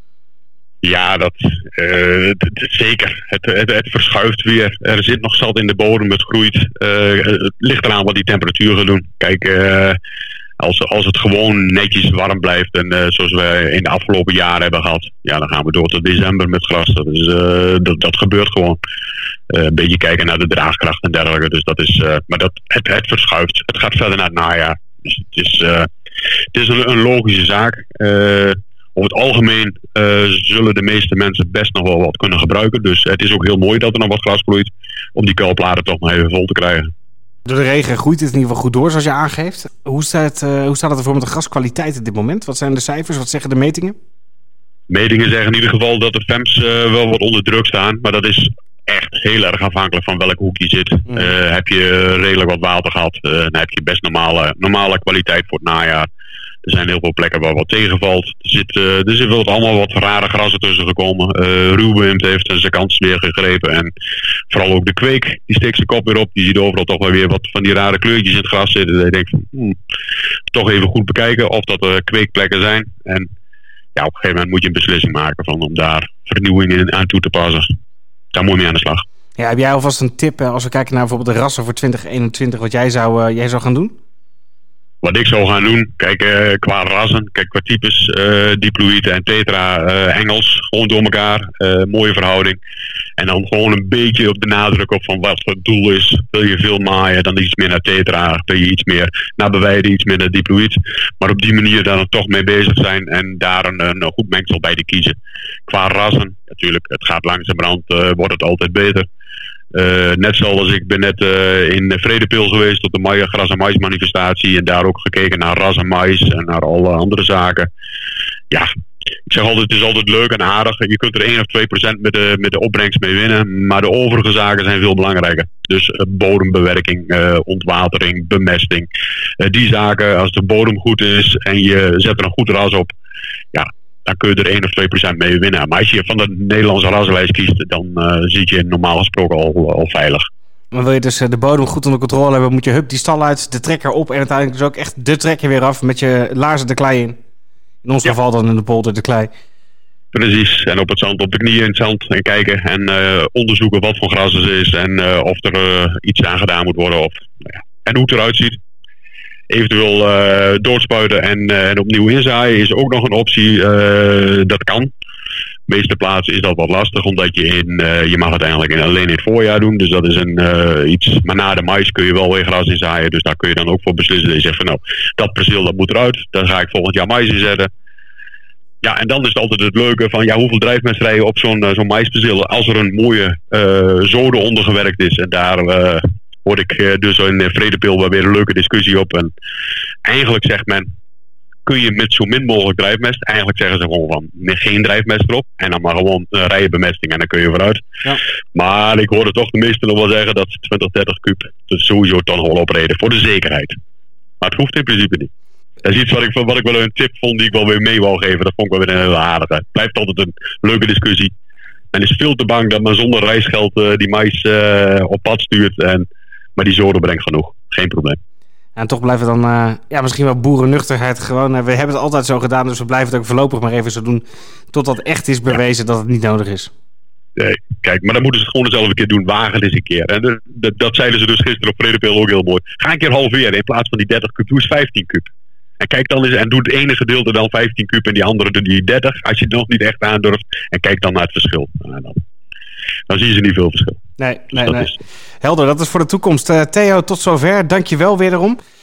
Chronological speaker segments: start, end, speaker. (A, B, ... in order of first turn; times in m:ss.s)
0:00.8-0:10.0 A
0:10.6-0:18.8 A
0:19.5-0:25.9 A
0:26.5-0:36.9 A
0:37.4-0:44.0 B
0:44.9-0:56.1 A
0:56.6-1:03.9 A
1:04.5-1:09.8 A
1:10.5-1:13.3 A
1:13.9-1:17.7 A
1:18.3-1:19.0 A
1:19.4-1:23.9 B
1:25.0-1:32.6 A
1:33.2-1:45.2 A
1:45.7-1:49.1 A
1:49.7-1:57.7 A
1:59.3-2:08.9 A
2:09.4-2:12.9 A
2:13.5-2:20.2 A
2:20.7-2:27.2 B
2:27.8-2:29.3 B
2:30.1-2:38.6 A
2:39.5-2:44.9 A
2:45.7-2:57.7 A
2:58.8-3:09.3 A
3:10.0-3:10.9 A
3:11.6-3:17.8 A
3:18.5-3:23.7 A
3:24.4-3:25.3 A
3:25.8-3:31.3 A
3:31.9-3:36.0 A
3:36.6-3:38.2 A
3:38.8-3:46.7 B
3:47.4-3:55.3 A
3:55.8-4:02.2 A
4:03.1-4:04.0 A
4:04.2-4:08.6 B
4:04.5-4:05.0 A